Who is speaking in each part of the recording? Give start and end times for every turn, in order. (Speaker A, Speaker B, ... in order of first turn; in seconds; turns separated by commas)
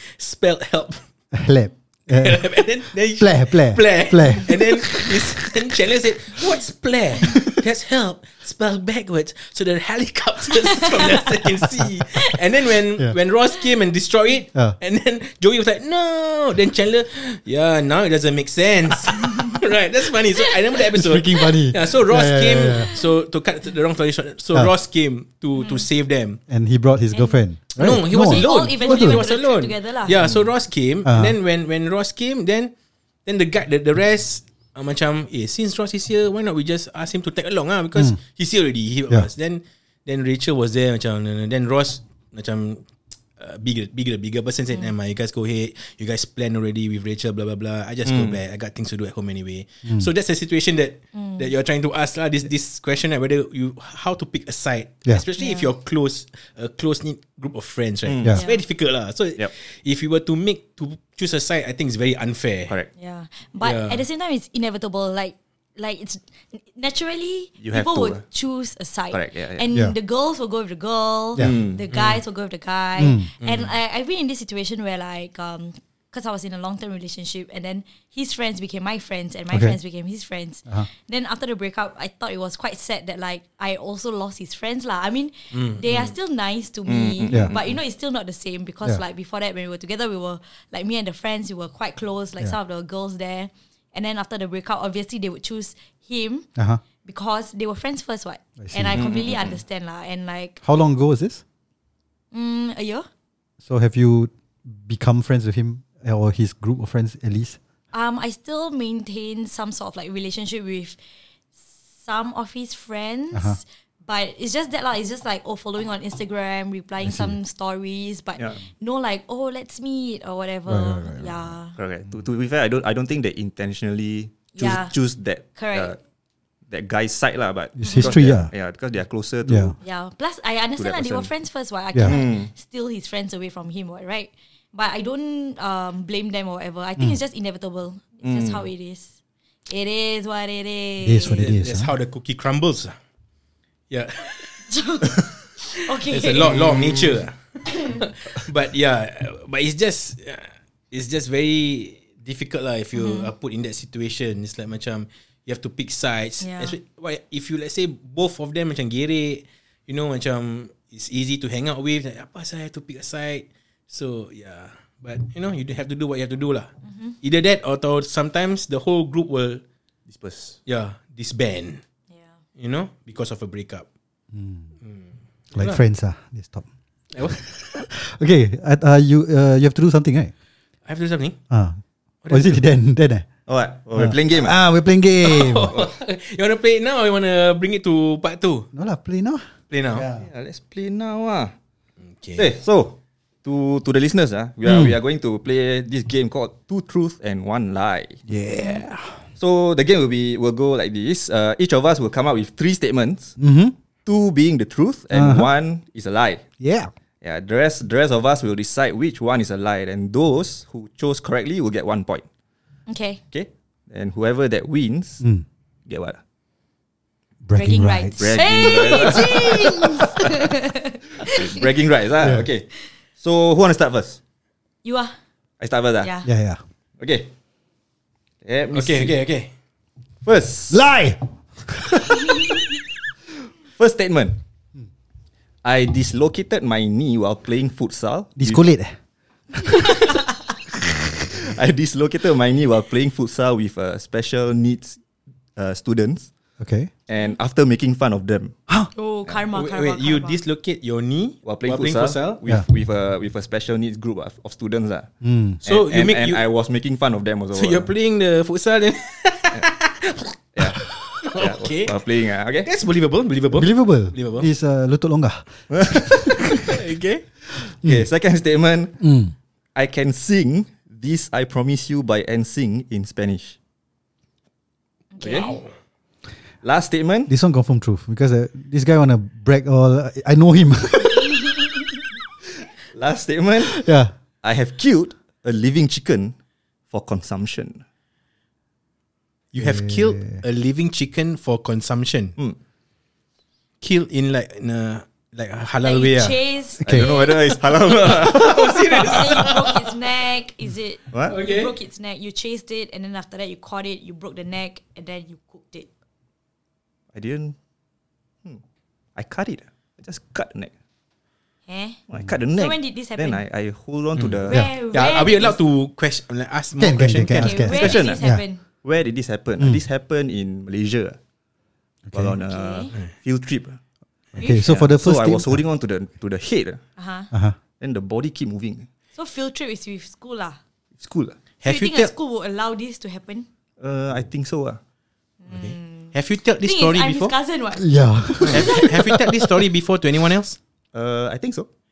Speaker A: 0.2-1.0, Speaker B: 1.3-2.6, Speaker A: 2.1-26.4, Speaker B: 3.1-5.0, Speaker B: 20.9-22.9, Speaker C: 25.6-25.9, Speaker B: 26.5-29.2, Speaker C: 27.1-27.4, Speaker A: 27.8-32.7, Speaker C: 28.2-30.2, Speaker B: 31.0-31.4, Speaker A: 33.2-42.9, Speaker A: 43.4-62.7, Speaker D: 48.0-48.4, Speaker C: 51.1-51.4, Speaker C: 55.4-55.7, Speaker D: 58.0-58.3, Speaker C: 58.3-58.6, Speaker C: 63.0-96.5, Speaker A: 63.6-64.0, Speaker D: 67.6-68.2, Speaker D: 69.1-69.6, Speaker D: 71.4-71.8, Speaker A: 71.9-72.2, Speaker B: 73.0-73.3, Speaker A: 73.4-73.7, Speaker B: 79.5-79.8, Speaker A: 85.5-86.1, Speaker D: 86.9-87.8, Speaker B: 96.5-96.8, Speaker C: 97.0-100.6, Speaker B: 98.6-99.0, Speaker D: 98.9-99.6, Speaker B: 100.6-101.4, Speaker C: 102.3-103.0, Speaker B: 103.6-107.6, Speaker C: 107.9-111.0, Speaker C: 111.7-121.8, Speaker B: 113.3-113.6, Speaker B: 117.0-117.4, Speaker B: 120.7-121.3, Speaker D: 121.8-126.0, Speaker C: 124.5-124.9, Speaker C: 125.4-125.9, Speaker D: 126.7-129.8, Speaker B: 127.8-128.5, Speaker C: 127.8-128.1, Speaker B: 129.4-129.8, Speaker C: 129.8-139.1, Speaker D: 130.8-131.3, Speaker D: 132.0-132.5, Speaker D: 138.2-138.7, Speaker C: 139.7-141.5, Speaker B: 141.0-141.9, Speaker A: 141.3-142.9, Speaker A: 143.9-144.6, Speaker C: 144.7-146.6, Speaker A: 146.1-166.7, Speaker D: 146.5-147.2, Speaker C: 152.9-153.3, Speaker C: 156.4-156.7, Speaker A: 167.2-169.6, Speaker D: 170.1-170.6, Speaker A: 170.7-171.8, Speaker A: 172.6-173.8, Speaker B: 174.3-174.7, Speaker A: 174.8-175.8, Speaker B: 175.5-176.7, Speaker A: 177.1-177.7, Speaker B: 177.3-180.3, Speaker A: 180.8-181.4, Speaker B: 181.5-183.2, Speaker A: 182.2-182.6, Speaker D: 183.5-184.6, Speaker B: 183.9-185.8, Speaker A: 185.2-188.7, Speaker B: 188.7-190.2, Speaker A: 189.7-190.1, Speaker D: 190.2-191.5, Speaker A: 192.1-192.5, Speaker D: 192.4-198.2, Speaker B: 194.6-194.9, Speaker B: 198.3-199.2, Speaker D: 199.4-203.4, Speaker B: 203.4-203.7, Speaker D: 204.0-206.4, Speaker B: 205.1-205.5, Speaker B: 206.6-206.9, Speaker D: 207.2-212.2, Speaker C: 212.9-213.2, Speaker D: 213.3-215.2, Speaker D: 215.9-216.2, Speaker B: 217.4-220.1, Speaker C: 217.5-221.5, Speaker D: 218.2-220.2, Speaker D: 221.2-224.2, Speaker B: 222.2-222.5, Speaker C: 224.8-225.2, Speaker D: 225.6-226.1, Speaker C: 226.0-226.3, Speaker B: 226.2-226.6, Speaker D: 227.0-227.3, Speaker D: 228.4-229.1, Speaker A: 228.7-229.5, Speaker D: 230.2-230.8, Speaker B: 230.7-232.4, Speaker D: 233.8-234.4, Speaker D: 235.6-238.6, Speaker B: 238.4-238.9, Speaker D: 241.2-245.0, Speaker D: 245.6-246.3, Speaker B: 246.6-246.9, Speaker D: 247.1-248.6, Speaker C: 248.9-250.4, Speaker A: 249.5-252.4, Speaker D: 251.4-255.1, Speaker B: 255.2-255.6, Speaker D: 255.6-257.9, Speaker A: 255.6-256.5, Speaker A: 257.5-262.1, Speaker D: 260.6-262.7, Speaker A: 262.6-264.5, Speaker B: 263.5-266.6, Speaker D: 265.7-266.6, Speaker A: 266.6-267.2, Speaker B: 267.7-268.1, Speaker D: 267.8-269.0, Speaker B: 269.0-269.3, Speaker D: 269.7-273.6, Speaker C: 275.1-275.6, Speaker D: 275.2-275.6, Speaker A: 275.3-275.6, Speaker D: 276.6-277.3, Speaker B: 277.3-281.4, Speaker D: 282.9-283.8, Speaker B: 283.6-284.1, Speaker D: 284.4-286.3, Speaker D: 286.9-287.8, Speaker A: 289.5-292.3, Speaker B: 289.6-290.4, Speaker A: 293.8-296.4, Speaker C: 295.8-297.5, Speaker B: 296.8-297.1, Speaker D: 296.8-299.0, Speaker A: 297.8-299.9, Speaker C: 299.1-305.9, Speaker D: 301.1-301.4, Speaker A: 301.3-301.7, Speaker D: 307.1-307.5, Speaker D: 309.1-310.7, Speaker C: 311.7-312.0, Speaker D: 312.1-314.6, Speaker C: 312.5-313.4, Speaker C: 314.5-315.6, Speaker A: 314.9-317.9, Speaker B: 316.8-318.4, Speaker C: 317.2-318.6, Speaker D: 317.7-318.2, Speaker D: 318.8-321.2, Speaker B: 322.1-322.4, Speaker D: 322.1-323.8, Speaker C: 322.4-322.9, Speaker C: 324.4-324.6, Speaker B: 324.4-325.6, Speaker D: 324.4-326.8, Speaker C: 327.0-327.3, Speaker D: 327.8-328.9, Speaker C: 329.1-330.6, Speaker D: 331.0-331.4, Speaker A: 331.6-332.1, Speaker C: 331.6-333.5, Speaker D: 333.8-334.8, Speaker C: 335.4-338.9, Speaker A: 335.5-337.3, Speaker B: 337.8-339.6, Speaker A: 338.4-340.6, Speaker D: 340.9-341.7